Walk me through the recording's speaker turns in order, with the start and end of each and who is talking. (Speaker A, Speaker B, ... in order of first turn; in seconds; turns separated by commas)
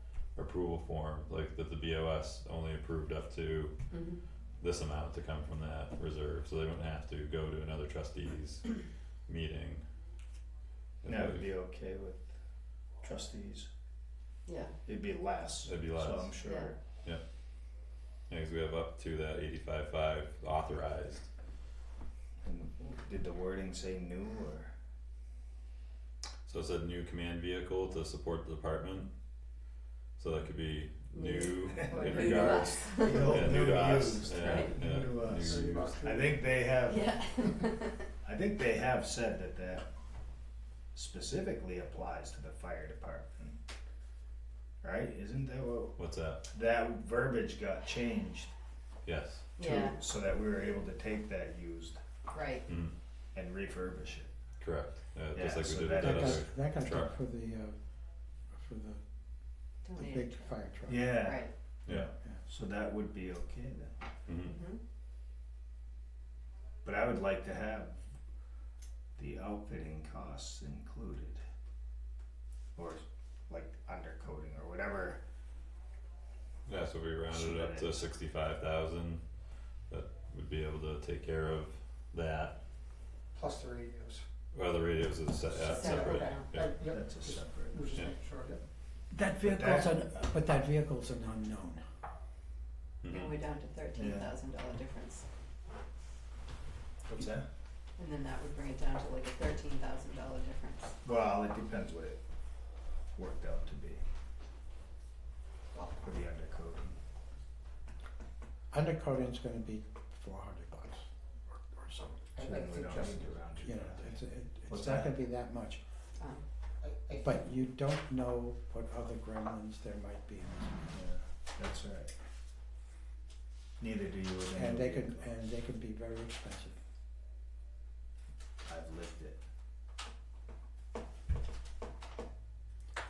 Speaker A: 0.3-3.8, Speaker B: 3.9-4.2, Speaker A: 4.6-9.8, Speaker A: 11.0-11.5, Speaker C: 11.1-12.3, Speaker C: 13.0-13.7, Speaker B: 14.4-14.7, Speaker C: 14.8-16.8, Speaker A: 15.6-16.3, Speaker B: 16.4-16.7, Speaker A: 18.3-21.3, Speaker C: 22.4-24.7, Speaker A: 26.4-29.1, Speaker A: 30.2-36.0, Speaker B: 31.1-33.6, Speaker C: 31.7-37.2, Speaker B: 34.3-34.7, Speaker D: 35.3-36.6, Speaker B: 36.8-38.1, Speaker C: 38.2-39.9, Speaker C: 40.9-43.6, Speaker C: 44.8-45.9, Speaker A: 46.0-46.4, Speaker C: 46.5-48.5, Speaker A: 49.0-49.5, Speaker B: 49.6-50.0, Speaker C: 49.6-52.0, Speaker B: 52.3-52.7, Speaker A: 52.7-52.9, Speaker C: 53.3-54.3, Speaker A: 54.6-57.1, Speaker C: 55.3-56.4, Speaker E: 55.9-57.8, Speaker E: 58.5-59.0, Speaker B: 59.8-60.5, Speaker E: 59.9-61.2, Speaker C: 60.9-63.9, Speaker B: 61.1-61.5, Speaker A: 64.2-64.5, Speaker B: 64.4-64.8, Speaker C: 66.8-68.0, Speaker C: 69.2-71.4, Speaker C: 72.8-75.2, Speaker A: 76.7-79.2, Speaker C: 77.3-77.9, Speaker A: 79.9-82.6, Speaker D: 83.3-84.2, Speaker A: 84.5-86.7, Speaker D: 85.5-88.6, Speaker B: 85.6-86.5, Speaker C: 86.7-87.8, Speaker E: 89.1-91.8, Speaker C: 89.4-90.0, Speaker A: 93.0-93.3, Speaker B: 93.1-95.2, Speaker C: 93.9-94.3, Speaker C: 97.1-97.5, Speaker B: 98.0-100.9, Speaker C: 101.0-102.2, Speaker C: 103.1-104.0, Speaker D: 105.7-106.0, Speaker C: 106.0-107.0, Speaker E: 108.7-112.2, Speaker D: 112.3-113.3, Speaker C: 112.4-114.2, Speaker E: 113.6-115.8, Speaker C: 114.7-115.1, Speaker B: 116.2-116.5, Speaker D: 116.8-117.5, Speaker E: 117.2-120.9, Speaker C: 120.9-122.1, Speaker C: 123.8-125.3, Speaker E: 124.5-126.8, Speaker C: 128.6-129.4